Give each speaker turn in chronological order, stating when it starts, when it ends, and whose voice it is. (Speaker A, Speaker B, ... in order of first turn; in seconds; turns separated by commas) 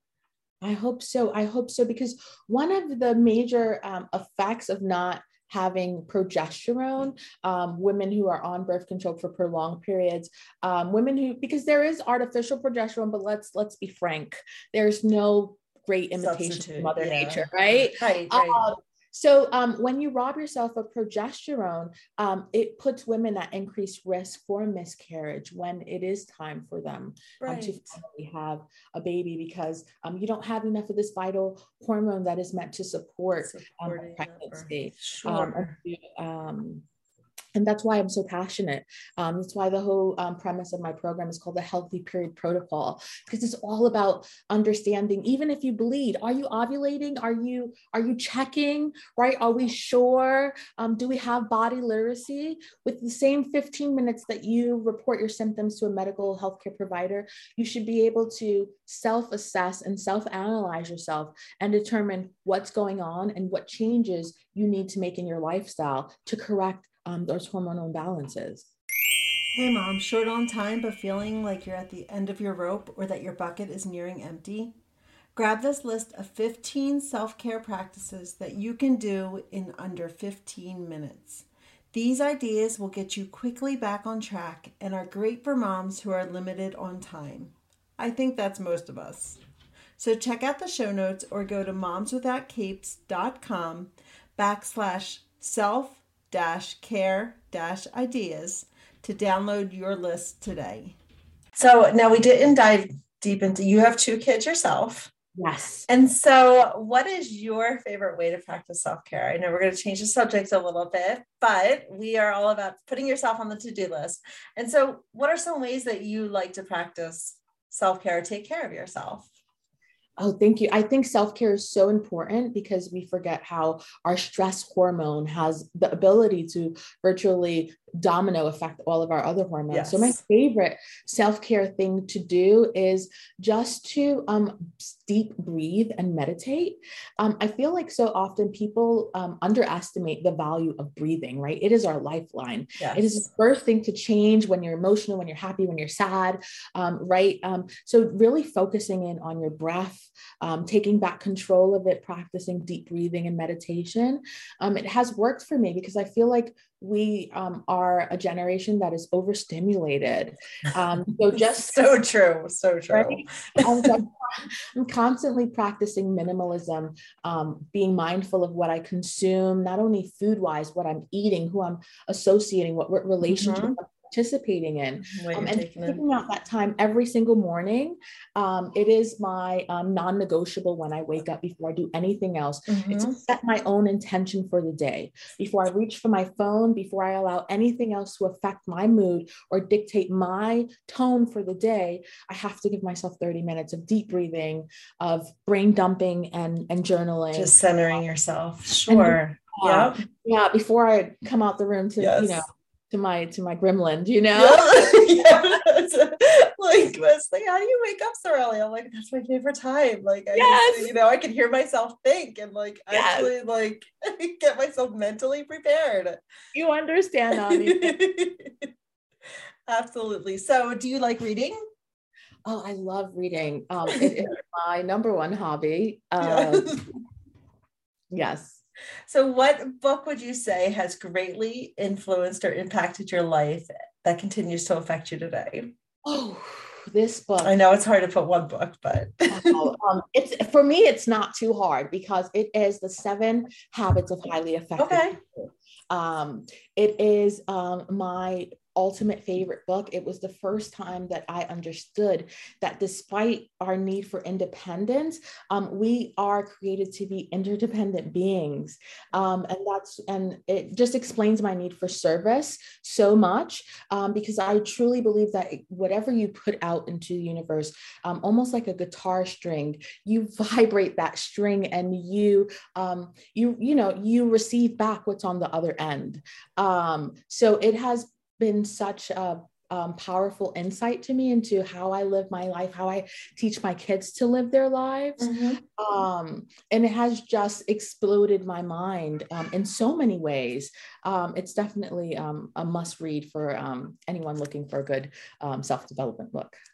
Speaker A: 0.6-36.9, Speaker B: 16.2-18.6, Speaker B: 27.4-28.0, Speaker B: 33.4-35.8, Speaker A: 37.5-68.7, Speaker B: 69.5-74.7, Speaker B: 75.3-89.4, Speaker B: 90.0-101.0, Speaker B: 101.5-105.1, Speaker A: 105.4-105.9, Speaker B: 105.9-119.3, Speaker A: 120.2-161.9, Speaker B: 129.7-130.2, Speaker B: 142.8-143.2, Speaker B: 161.3-163.9, Speaker A: 162.9-197.6, Speaker B: 173.3-173.8, Speaker B: 175.1-176.0, Speaker B: 182.7-183.2, Speaker B: 197.3-200.0, Speaker A: 198.9-205.5, Speaker B: 202.0-202.4, Speaker B: 204.3-216.2, Speaker A: 210.3-210.9, Speaker A: 212.9-213.3, Speaker A: 216.5-218.0, Speaker B: 217.5-218.7, Speaker B: 219.7-221.6, Speaker A: 222.4-226.8, Speaker B: 226.2-226.8, Speaker A: 228.1-228.6, Speaker B: 229.1-235.7, Speaker A: 236.1-237.5, Speaker B: 237.4-239.6, Speaker A: 239.3-245.2, Speaker B: 244.8-245.2, Speaker A: 245.9-296.6, Speaker B: 285.2-285.6